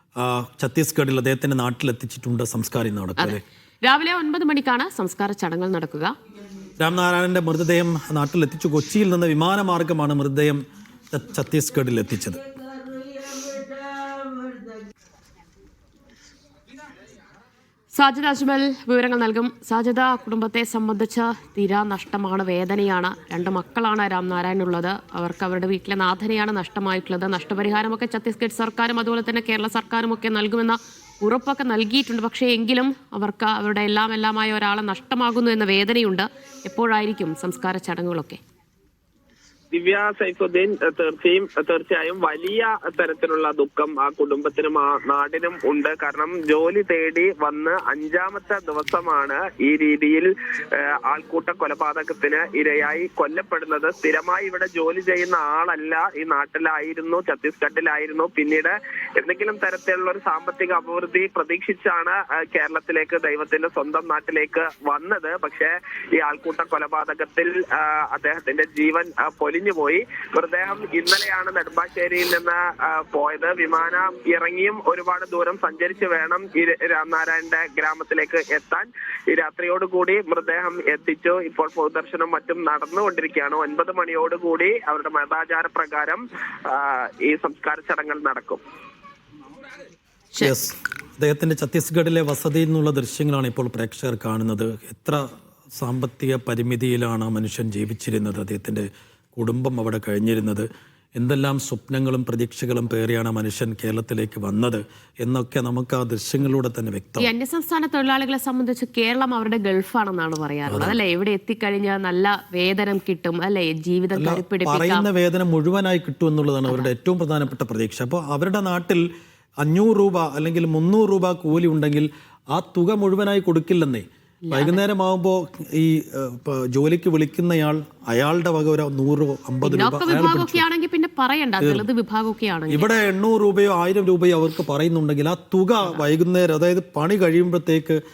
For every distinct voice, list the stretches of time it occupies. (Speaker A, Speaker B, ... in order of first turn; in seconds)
Speaker A: 0.2-3.4, 6.8-12.5, 90.4-95.2, 95.8-107.3, 110.7-111.0, 114.2-119.1, 119.6-130.6, 132.7-138.0
Speaker B: 3.2-6.2, 17.9-38.4, 107.2-115.0, 124.4-124.8, 129.7-132.9
Speaker C: 39.7-88.6